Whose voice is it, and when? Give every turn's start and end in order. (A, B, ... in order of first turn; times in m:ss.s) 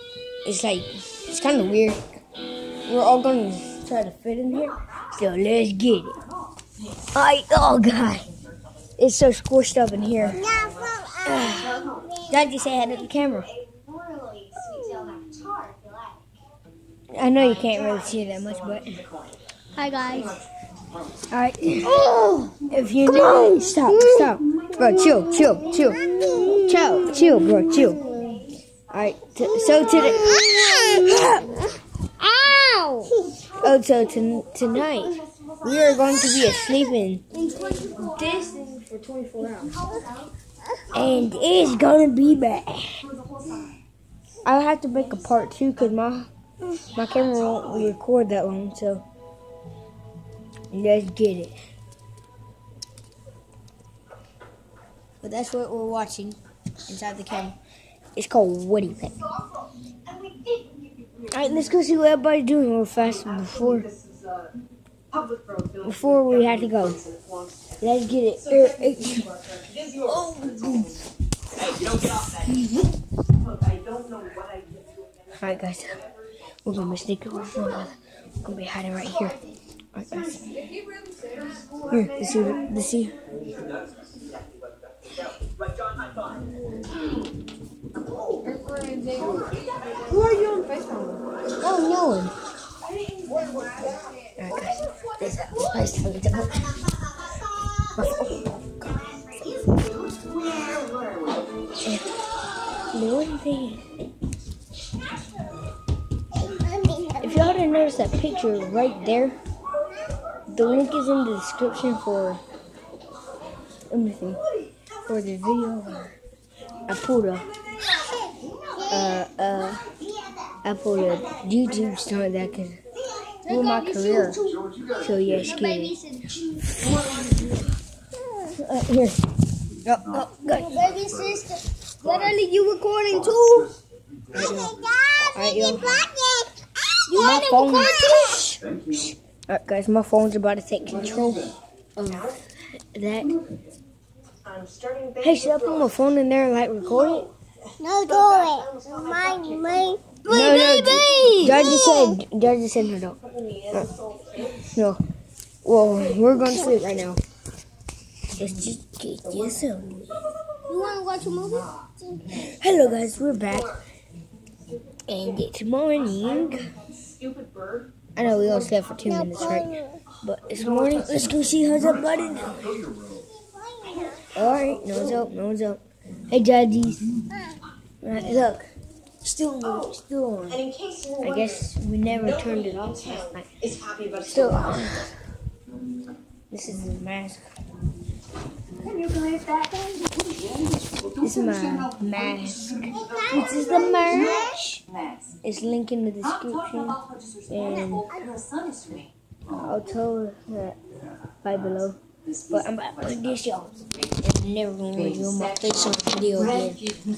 0:00.4-0:02.0 A
0:02.8-0:06.2 A
0:07.1-0:08.3 A
0:09.0-0:10.5 A
0:10.4-0:12.2 B
0:11.2-0:13.5 A
0:14.1-0:15.8 C
0:14.6-0:15.2 B
0:17.1-0:19.0 A
0:19.8-0:20.3 B
0:21.3-0:22.0 A
0:21.9-0:22.5 B
0:22.6-0:28.1 A
0:25.9-0:26.7 B
0:27.9-0:28.4 B
0:28.9-0:31.7 A
0:30.4-0:31.0 B
0:32.2-0:33.3 B
0:33.6-0:37.3 A
0:37.4-0:38.1 B
0:38.0-0:39.7 A
0:40.9-0:43.0 A
0:44.4-0:49.0 A
0:50.7-0:51.6 A
0:55.2-0:57.6 A
0:58.2-0:59.2 A
1:01.3-1:03.9 A
1:05.8-1:07.0 A
1:07.8-1:11.0 A
1:12.0-1:12.9 A
1:15.3-1:16.0 A
1:16.6-1:19.4 A
1:19.9-1:20.6 A
1:21.2-1:21.6 C
1:21.9-1:23.2 A
1:28.4-1:31.2 C
1:31.6-1:32.3 A
1:34.4-1:36.8 A
1:38.0-1:38.5 A
1:40.2-1:41.2 C
1:41.8-1:42.1 A
1:42.9-1:43.9 A
1:46.4-1:47.5 B
1:47.2-1:49.4 A
1:50.5-1:52.4 A
1:53.9-1:54.4 A
1:55.0-1:56.2 A
1:56.9-1:57.5 A
1:58.1-1:58.9 B
1:58.9-1:59.9 A
2:00.1-2:00.5 B
2:00.6-2:02.8 A
2:03.1-2:04.6 B
2:03.4-2:06.0 A
2:05.5-2:06.5 B
2:08.5-2:09.2 A
2:09.8-2:10.8 A
2:10.4-2:13.7 B
2:14.3-2:14.8 A
2:14.5-2:18.6 B
2:15.3-2:15.9 A
2:17.1-2:18.3 A
2:18.9-2:23.4 A
2:24.5-2:25.1 C
2:25.2-2:27.3 A
2:27.8-2:32.2 B
2:30.2-2:33.2 A
2:33.7-2:35.0 A
2:34.0-2:34.3 C
2:35.6-2:37.2 A
2:38.4-2:40.1 A
2:40.7-2:42.3 B
2:42.3-2:43.8 A
2:45.1-2:46.7 A
2:48.2-2:52.9 A
2:49.3-2:50.0 B
2:53.2-2:54.3 B
2:54.3-2:57.1 A
2:58.0-2:58.7 A
2:59.2-3:00.6 A
3:01.2-3:03.5 A
3:04.2-3:05.2 A
3:06.5-3:07.4 A
3:11.2-3:14.8 A
3:13.0-3:14.7 B
3:15.4-3:18.2 A
3:18.6-3:19.0 C
3:19.6-3:20.8 A
3:21.4-3:22.0 A
3:22.5-3:26.9 A